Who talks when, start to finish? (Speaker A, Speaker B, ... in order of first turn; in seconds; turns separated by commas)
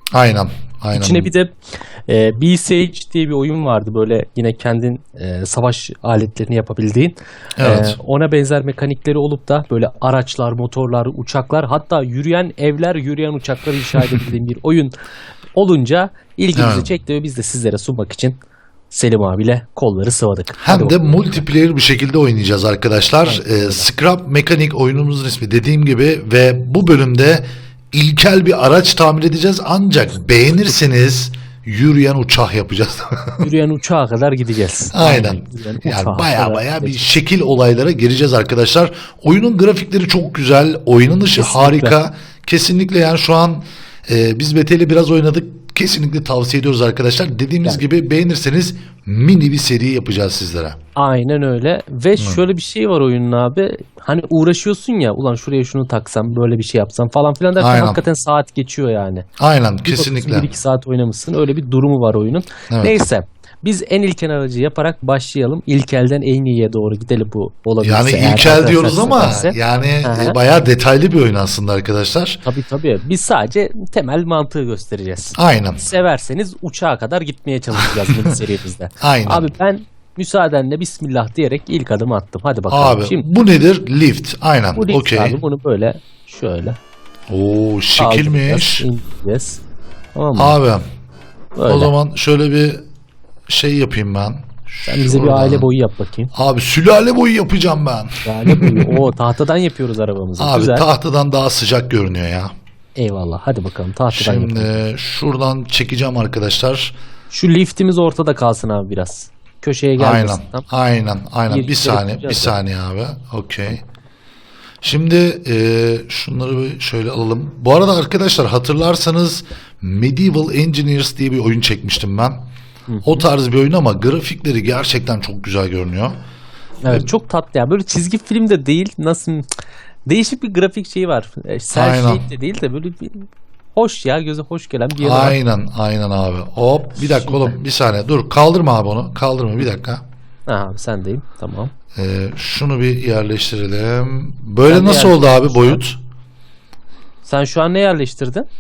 Speaker A: 0.1-1.3, Speaker B: 0.9-1.6, Speaker B: 2.1-14.9, Speaker A: 7.6-8.0, Speaker B: 15.6-18.4, Speaker A: 16.6-16.9, Speaker B: 18.9-21.4, Speaker A: 20.6-33.5, Speaker B: 23.2-23.9, Speaker B: 33.4-37.2, Speaker A: 34.9-50.8, Speaker B: 41.4-42.0, Speaker B: 51.0-59.3, Speaker A: 52.2-52.4, Speaker A: 57.6-58.0, Speaker A: 59.4-60.5, Speaker B: 59.9-70.4, Speaker A: 67.8-72.4, Speaker B: 72.5-83.2, Speaker A: 75.4-75.8, Speaker A: 79.0-79.5, Speaker A: 82.7-85.4, Speaker B: 84.8-86.8, Speaker A: 87.3-88.9, Speaker B: 88.0-89.6, Speaker B: 90.2-90.6, Speaker A: 90.3-90.8, Speaker B: 91.6-91.9, Speaker A: 91.7-92.8, Speaker A: 93.5-95.7, Speaker B: 94.9-96.3, Speaker A: 96.3-99.1, Speaker B: 98.2-100.9, Speaker A: 100.4-102.5, Speaker B: 103.0-104.8, Speaker A: 104.1-107.0, Speaker B: 107.3-110.6, Speaker A: 110.0-113.8, Speaker B: 111.5-112.5, Speaker A: 114.8-122.4, Speaker B: 122.9-123.2, Speaker A: 123.0-126.2, Speaker B: 126.8-129.5, Speaker B: 130.1-135.4, Speaker A: 131.7-132.2, Speaker A: 135.0-140.0, Speaker B: 137.0-137.6, Speaker B: 140.5-141.7, Speaker A: 141.9-146.0, Speaker B: 144.7-145.8, Speaker B: 147.2-148.5